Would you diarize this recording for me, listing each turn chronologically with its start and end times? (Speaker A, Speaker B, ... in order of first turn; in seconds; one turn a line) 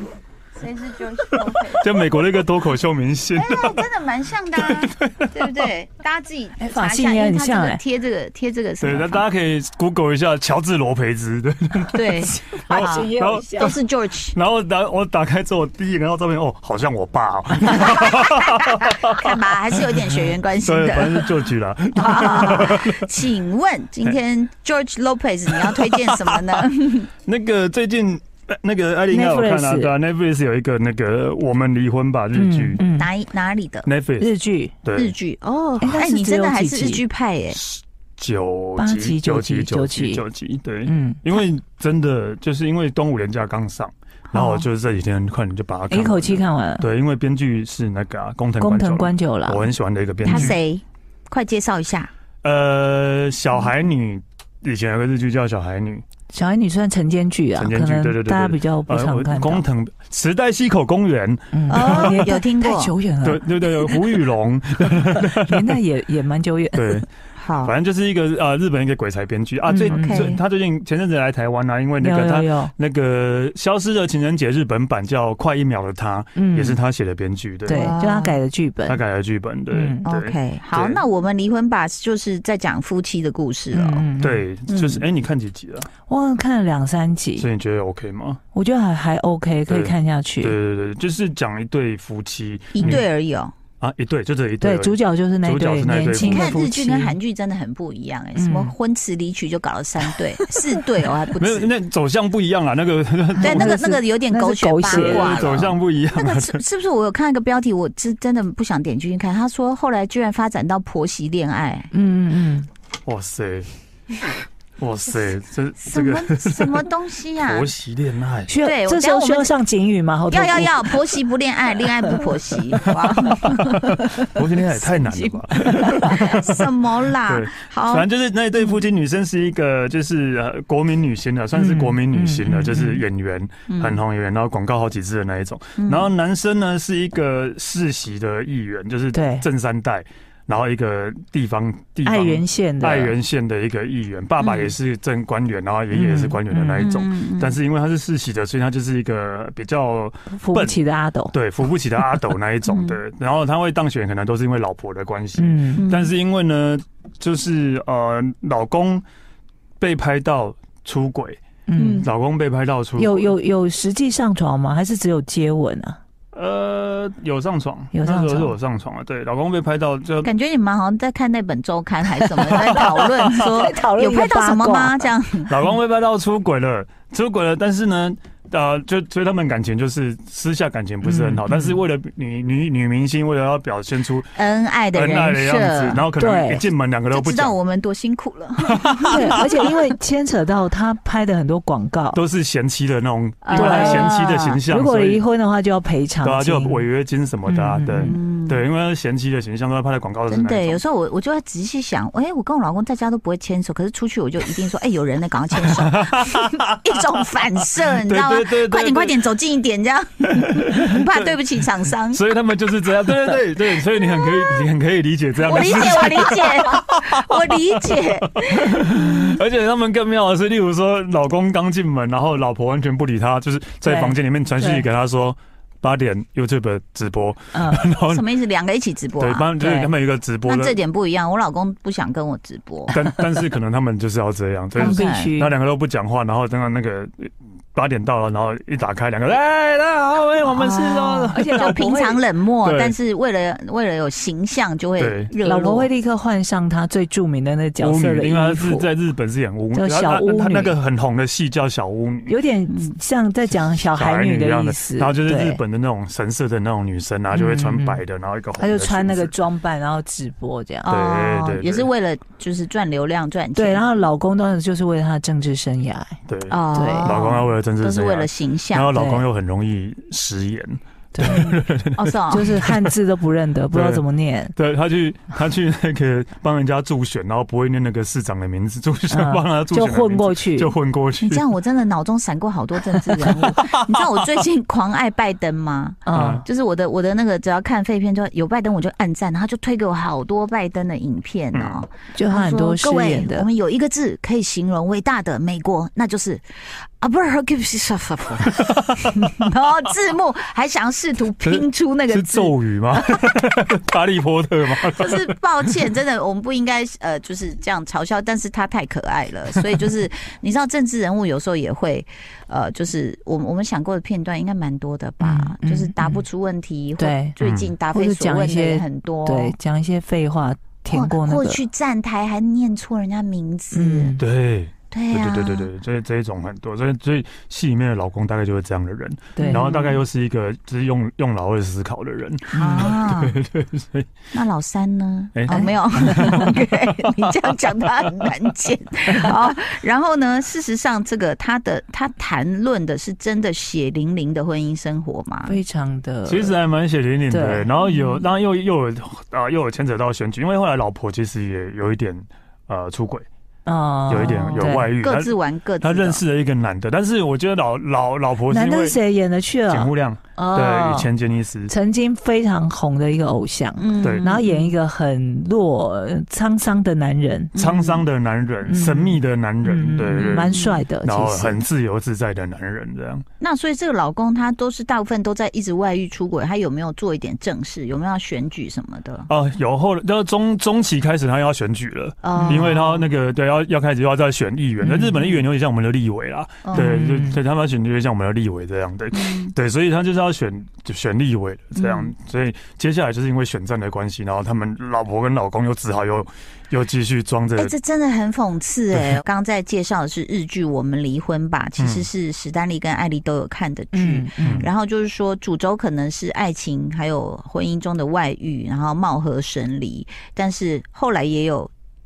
Speaker A: 0.6-2.1
Speaker B: 1.2-3.9
Speaker A: 3.4-9.2
Speaker B: 4.6-5.7
Speaker C: 6.6-7.8
Speaker B: 8.8-13.8
Speaker A: 11.9-14.4
Speaker C: 12.3-13.8
Speaker B: 14.3-23.2
Speaker A: 17.6-21.4
Speaker A: 22.0-27.1
Speaker B: 25.5-26.7
Speaker B: 27.2-32.8
Speaker C: 29.1-29.9
Speaker C: 32.4-33.1
Speaker A: 32.8-33.9
Speaker B: 33.9-34.3
Speaker C: 34.2-34.7
Speaker B: 34.8-35.1
Speaker A: 35.0-37.6
Speaker C: 35.8-37.0
Speaker B: 37.5-50.6
Speaker C: 38.8-40.2
Speaker C: 40.9-41.2
Speaker C: 44.4-44.6
Speaker C: 45.9-46.9
Speaker C: 48.6-49.7
Speaker A: 50.2-52.1
Speaker C: 50.3-50.6
Speaker B: 52.4-56.0
Speaker C: 56.3-59.6
Speaker B: 57.6-62.2
Speaker C: 61.5-64.0
Speaker A: 61.7-62.9
Speaker B: 63.2-65.8
Speaker C: 65.1-67.0
Speaker B: 66.8-67.1
Speaker A: 67.4-67.7
Speaker B: 67.6-77.9
Speaker C: 69.7-70.4
Speaker A: 69.9-70.4
Speaker C: 72.0-72.7
Speaker C: 76.4-76.8
Speaker C: 77.7-79.0
Speaker A: 77.7-78.4
Speaker B: 78.9-81.0
Speaker C: 79.7-80.0
Speaker A: 80.0-84.1
Speaker C: 83.7-84.4
Speaker B: 84.2-85.9
Speaker A: 84.7-85.0
Speaker C: 86.1-87.5
Speaker B: 87.4-88.4
Speaker C: 88.5-90.6
Speaker B: 89.7-93.0
Speaker A: 92.8-93.5
Speaker B: 93.8-96.6
Speaker C: 94.6-97.2
Speaker A: 96.2-101.7
Speaker C: 98.4-98.7
Speaker B: 101.4-103.8
Speaker C: 103.4-105.4
Speaker A: 103.4-111.9
Speaker B: 104.9-106.6
Speaker C: 111.9-112.7
Speaker B: 113.1-113.7
Speaker B: 114.8-116.9
Speaker A: 115.8-117.7
Speaker B: 117.4-118.5
Speaker C: 118.5-121.1
Speaker A: 118.6-119.5
Speaker A: 120.3-128.1
Speaker B: 123.2-150.8
Speaker C: 131.6-133.0
Speaker A: 133.7-134.0
Speaker A: 135.8-136.1
Speaker C: 139.1-139.5
Speaker C: 142.1-143.1
Speaker A: 144.4-144.7
Speaker C: 145.9-146.8
Speaker A: 146.7-147.6
Speaker C: 150.3-151.3
Speaker B: 151.3-159.0
Speaker A: 152.7-153.0
Speaker C: 155.4-155.9
Speaker A: 155.8-156.1
Speaker B: 159.8-161.4
Speaker C: 161.7-162.1
Speaker A: 161.8-162.1
Speaker B: 162.0-163.3
Speaker C: 163.0-166.0
Speaker B: 166.3-170.3
Speaker C: 167.9-168.6
Speaker A: 170.2-175.5
Speaker B: 172.4-173.5
Speaker C: 173.4-175.0
Speaker B: 175.5-184.4
Speaker C: 181.0-181.8
Speaker A: 184.4-186.0
Speaker B: 184.9-187.6
Speaker C: 186.2-186.7
Speaker A: 187.1-189.8
Speaker B: 188.7-189.6
Speaker C: 189.1-192.2
Speaker B: 192.1-195.2
Speaker A: 193.4-194.6
Speaker C: 193.5-194.1
Speaker C: 194.7-196.8
Speaker B: 196.2-200.8
Speaker C: 197.5-198.2
Speaker A: 198.1-198.6
Speaker A: 200.3-212.2
Speaker B: 205.6-207.0
Speaker B: 207.8-209.3
Speaker B: 210.3-211.3
Speaker B: 212.1-228.2
Speaker A: 213.9-214.6
Speaker A: 215.4-219.4
Speaker C: 223.8-224.9
Speaker C: 227.5-227.9
Speaker A: 227.9-229.9
Speaker B: 229.2-230.8
Speaker A: 230.4-232.9
Speaker B: 232.9-241.8
Speaker C: 234.8-235.5
Speaker A: 234.8-235.3
Speaker A: 240.4-245.9
Speaker C: 241.3-242.2
Speaker B: 242.6-242.9
Speaker B: 245.0-245.3
Speaker C: 245.4-248.9
Speaker B: 247.8-252.3
Speaker C: 249.7-250.7
Speaker C: 252.3-255.6
Speaker B: 253.9-259.3
Speaker C: 257.3-258.0
Speaker C: 258.6-260.9
Speaker A: 260.9-263.8
Speaker B: 260.9-261.9
Speaker C: 263.6-266.2
Speaker B: 266.3-272.9
Speaker A: 266.5-269.0
Speaker C: 266.7-267.1
Speaker C: 268.9-269.2
Speaker C: 271.1-271.6
Speaker A: 272.0-272.6
Speaker C: 272.3-274.5
Speaker B: 273.7-274.0
Speaker B: 274.6-281.5
Speaker C: 279.1-280.7
Speaker A: 281.2-303.5
Speaker B: 282.9-284.4
Speaker C: 286.1-286.4
Speaker B: 286.1-286.4
Speaker B: 291.5-291.8
Speaker C: 292.1-293.5
Speaker B: 298.6-299.4
Speaker B: 301.4-305.7
Speaker A: 304.8-319.5
Speaker C: 315.2-316.2
Speaker C: 317.0-317.4
Speaker B: 317.4-317.7
Speaker C: 317.9-321.6
Speaker A: 320.9-324.2
Speaker C: 323.7-324.2
Speaker B: 324.2-334.1
Speaker A: 324.9-325.7
Speaker C: 329.4-329.7
Speaker A: 329.4-330.0
Speaker A: 332.5-333.4
Speaker C: 332.5-332.9
Speaker A: 334.3-345.6
Speaker B: 335.4-338.3
Speaker C: 345.5-346.6
Speaker B: 346.3-353.2
Speaker C: 347.3-347.7
Speaker A: 347.8-348.2
Speaker C: 353.7-354.9
Speaker B: 354.1-359.0
Speaker A: 354.2-356.2
Speaker C: 358.5-361.1
Speaker B: 359.7-361.7
Speaker C: 361.7-367.5
Speaker A: 363.8-364.8
Speaker B: 364.0-364.3
Speaker A: 367.6-368.0
Speaker B: 367.6-373.2
Speaker C: 368.7-371.6
Speaker A: 370.1-370.8
Speaker A: 373.4-379.3
Speaker B: 379.3-397.7
Speaker A: 382.2-383.1
Speaker C: 382.3-382.7
Speaker C: 384.8-385.3
Speaker A: 386.6-387.0
Speaker C: 386.7-387.4
Speaker A: 389.1-389.5
Speaker A: 391.8-392.1
Speaker A: 397.6-411.7
Speaker B: 401.8-402.1
Speaker C: 403.9-404.7
Speaker B: 404.4-404.7